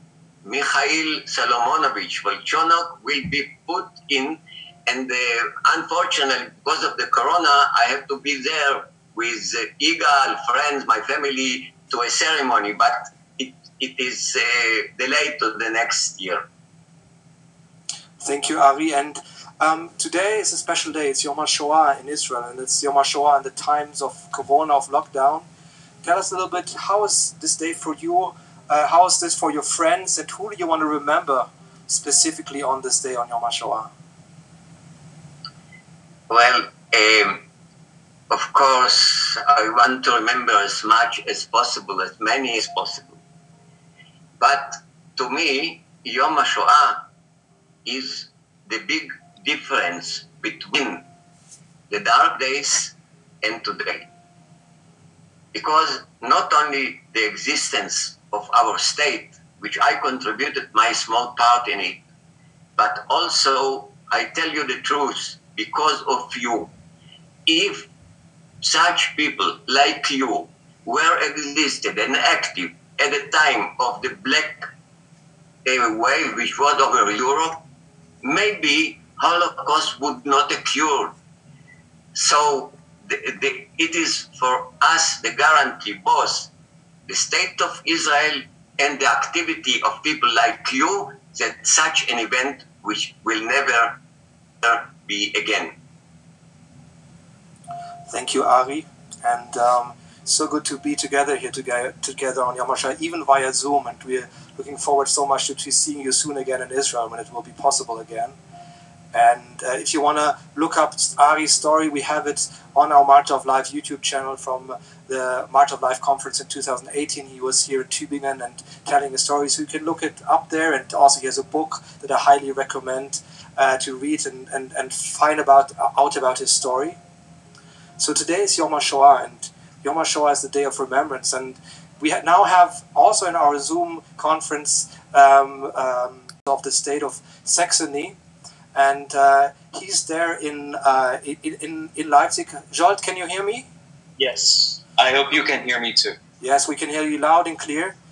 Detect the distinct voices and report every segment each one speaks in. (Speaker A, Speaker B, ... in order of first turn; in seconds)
Speaker A: 0.4-16.5, 36.3-37.4, 38.3-43.2, 44.4-47.0, 47.9-51.0, 51.9-54.1, 55.5-62.0, 62.8-66.7, 67.5-67.9, 68.6-74.7, 75.6-77.6, 78.2-81.1, 82.1-86.5, 87.1-94.0, 94.6-95.8
Speaker B: 18.2-25.5, 26.0-33.9, 98.1-108.4, 109.1-127.0, 128.0-138.2, 138.7-143.7, 146.4-147.9
Speaker C: 144.2-146.2